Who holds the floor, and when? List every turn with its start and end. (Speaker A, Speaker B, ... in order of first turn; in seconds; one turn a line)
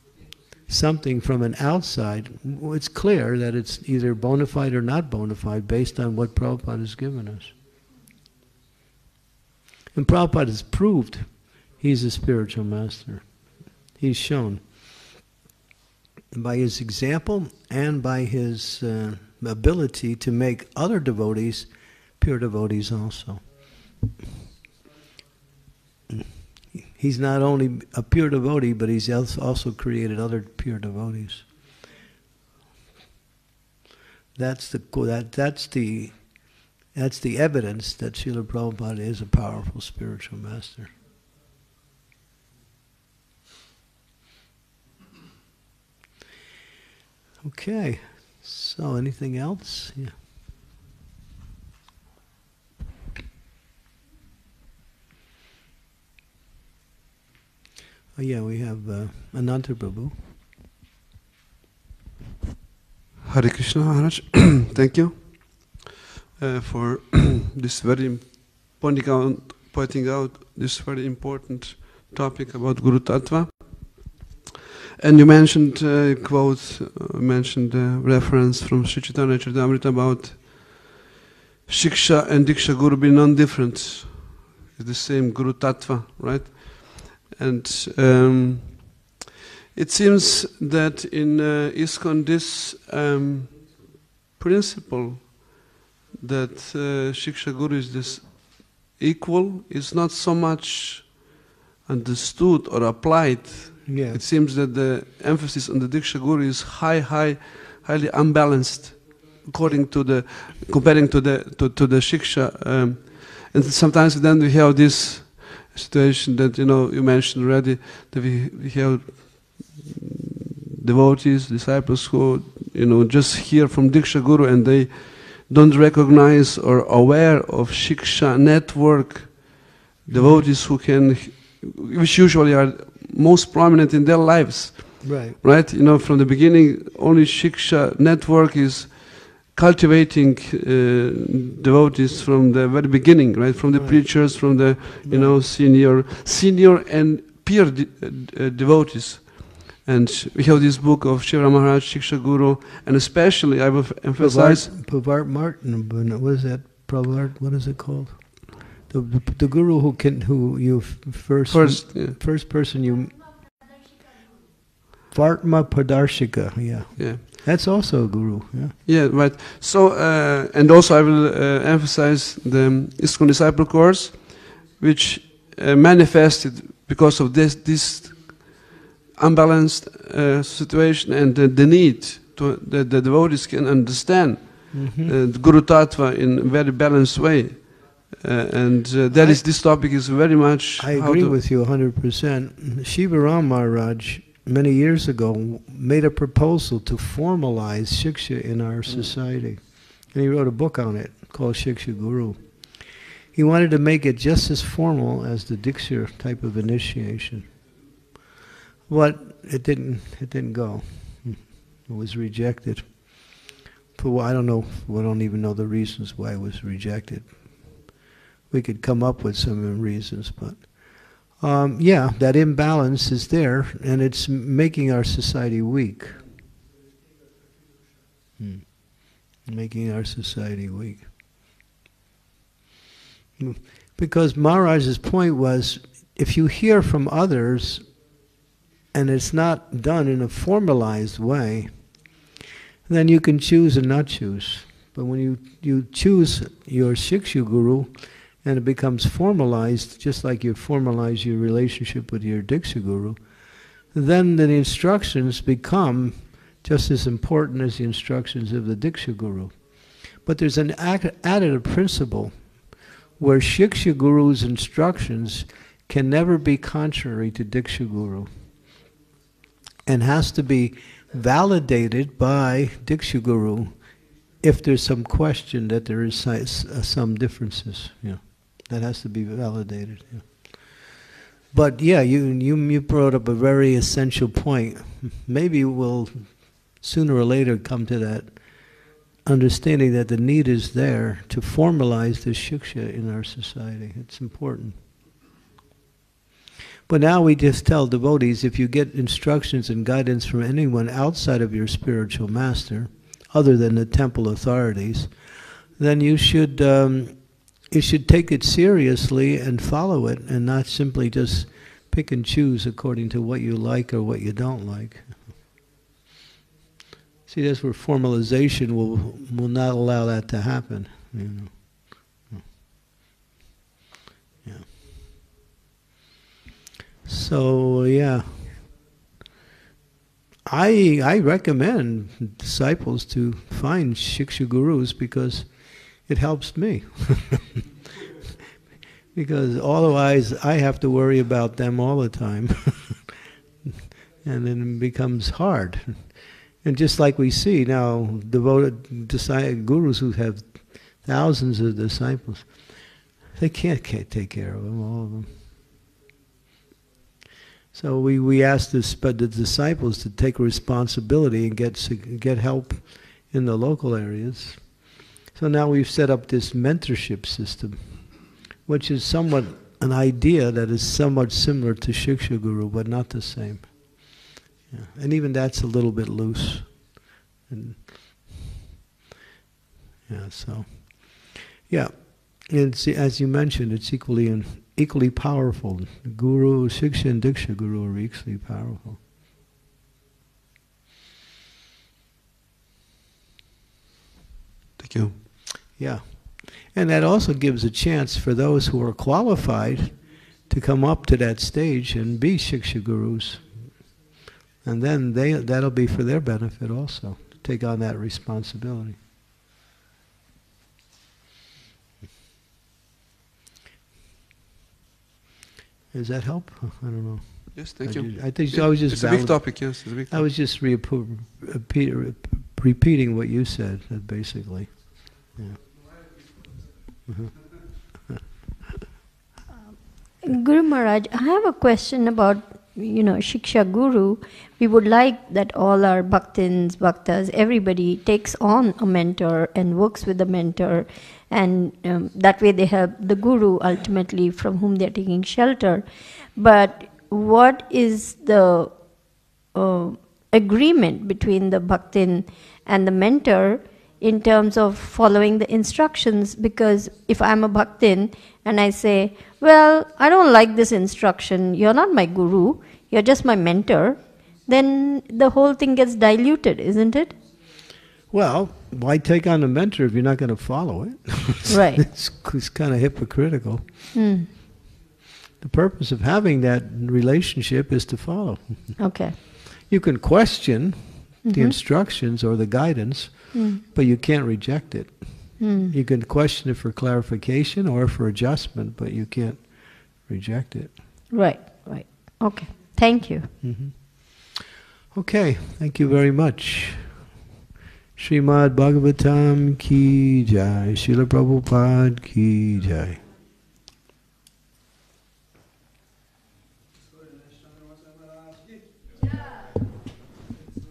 Speaker A: 0.7-7.5
Speaker A: 9.9-13.3
Speaker A: 14.0-14.6
Speaker A: 16.3-23.4
Speaker A: 26.8-31.5
Speaker A: 34.4-40.9
Speaker A: 47.4-50.1
Speaker A: 58.2-60.2
Speaker B: 63.2-65.8
Speaker B: 66.4-74.1
Speaker B: 75.0-80.9
Speaker B: 81.7-89.1
Speaker B: 89.7-120.1
Speaker A: 103.9-104.2
Speaker B: 120.8-154.7
Speaker A: 130.1-130.4
Speaker A: 135.0-135.4
Speaker A: 143.7-145.4
Speaker A: 154.2-163.2
Speaker B: 161.5-162.2
Speaker A: 165.1-168.7
Speaker B: 167.0-167.2
Speaker B: 168.9-191.3
Speaker A: 184.7-185.2
Speaker A: 189.1-189.4
Speaker A: 190.8-207.5
Speaker A: 208.9-217.9
Speaker A: 218.5-226.2
Speaker A: 228.4-231.1
Speaker A: 233.4-237.9
Speaker A: 238.9-242.1
Speaker A: 242.9-262.6
Speaker A: 263.2-268.3
Speaker A: 269.9-280.5
Speaker A: 281.5-294.8
Speaker A: 296.9-315.2
Speaker A: 317.3-322.5
Speaker A: 327.1-328.6
Speaker A: 330.5-337.5
Speaker A: 339.1-343.1
Speaker A: 344.2-355.3
Speaker A: 357.7-376.9
Speaker A: 377.5-377.9
Speaker A: 380.1-389.0
Speaker B: 394.8-395.2
Speaker A: 395.7-403.7
Speaker A: 404.6-409.0
Speaker A: 415.9-425.6
Speaker B: 417.6-420.2
Speaker C: 429.8-467.2
Speaker A: 468.1-473.8
Speaker C: 471.5-471.9
Speaker C: 473.9-474.3
Speaker A: 475.4-478.8
Speaker C: 478.8-479.2
Speaker A: 479.6-490.9
Speaker C: 481.2-481.6
Speaker C: 483.3-483.6
Speaker C: 485.4-485.7
Speaker C: 491.1-493.3
Speaker A: 493.4-494.4
Speaker A: 494.9-497.1
Speaker A: 498.0-503.0